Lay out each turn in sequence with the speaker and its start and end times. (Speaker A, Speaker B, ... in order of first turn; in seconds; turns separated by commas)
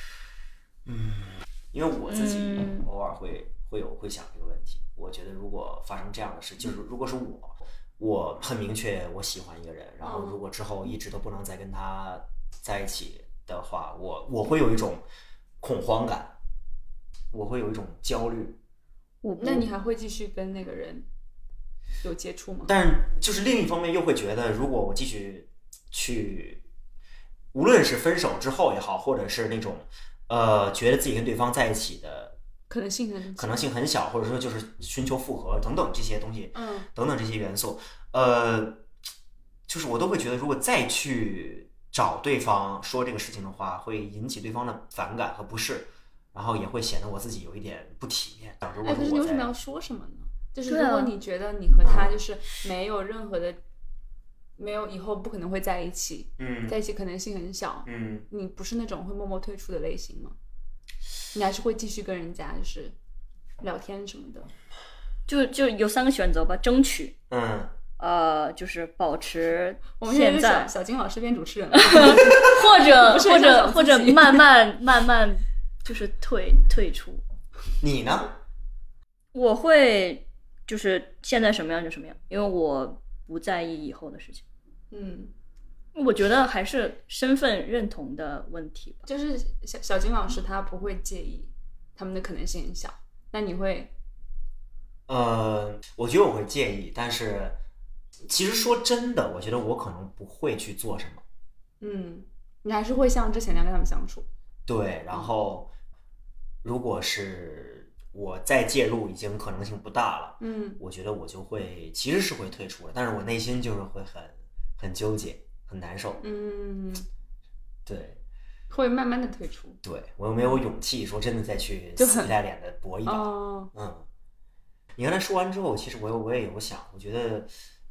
Speaker A: 0.8-15.0, Speaker B: 2.1-2.9, Speaker C: 10.0-10.4, Speaker A: 15.6-16.4, Speaker A: 17.3-18.6, Speaker B: 19.2-19.7, Speaker C: 19.4-21.1, Speaker C: 22.0-22.7, Speaker A: 22.7-26.6, Speaker A: 27.5-32.4, Speaker C: 32.7-33.7, Speaker A: 33.4-38.8, Speaker C: 36.5-36.9, Speaker A: 39.7-49.5, Speaker C: 48.8-53.6, Speaker B: 50.7-51.1, Speaker A: 51.8-52.2, Speaker C: 54.6-60.4, Speaker A: 56.4-56.8, Speaker A: 57.9-58.3, Speaker C: 61.3-63.0, Speaker C: 63.6-64.5, Speaker B: 65.3-67.2, Speaker A: 67.3-67.8, Speaker B: 68.0-70.7, Speaker C: 70.0-74.5, Speaker B: 71.8-77.2, Speaker A: 77.8-78.4, Speaker B: 79.3-84.4, Speaker C: 84.9-85.3, Speaker B: 85.9-89.1, Speaker C: 89.1-93.9, Speaker A: 95.1-97.6, Speaker A: 98.3-101.2, Speaker C: 101.8-104.3, Speaker A: 104.7-105.7, Speaker A: 106.6-116.2, Speaker C: 110.4-110.8, Speaker C: 116.2-117.1, Speaker A: 117.9-118.2, Speaker C: 118.7-119.8, Speaker A: 119.8-124.1, Speaker C: 122.0-122.3, Speaker C: 123.1-123.7, Speaker A: 125.0-127.5